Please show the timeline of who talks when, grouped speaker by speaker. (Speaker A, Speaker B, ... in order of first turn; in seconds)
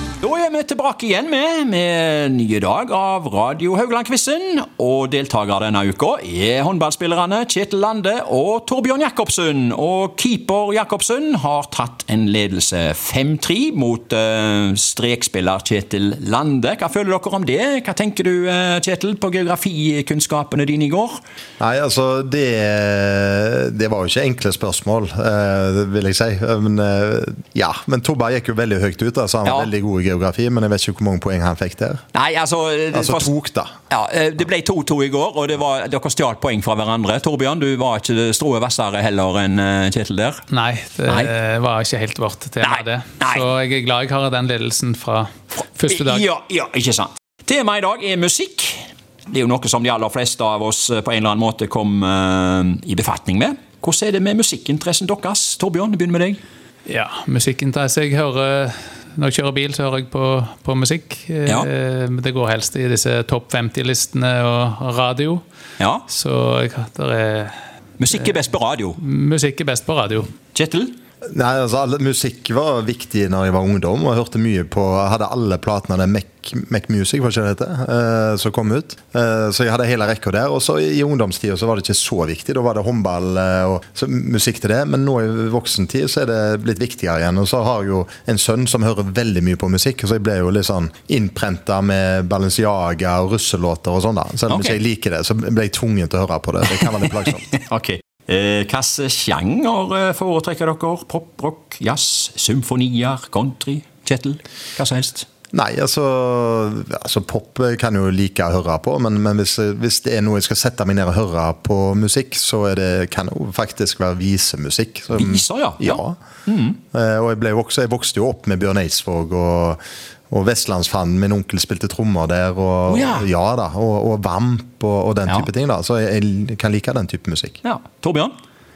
Speaker A: 0.2-21.2, 29.5-29.7, 32.1-33.3, 33.9-40.4, 41.1-41.3, 42.6-43.5, 45.9-56.4, 65.8-66.0, 68.0-69.0, 70.5-70.9, 94.5-94.8, 97.5-105.3, 115.2-116.8, 122.9-123.3, 127.6-128.3
Speaker B: 21.6-32.0, 32.9-33.7, 71.3-97.5, 105.5-116.2, 116.9-119.8, 120.3-127.6
Speaker C: 40.5-46.2, 56.9-65.4, 66.1-67.6, 69.0-70.3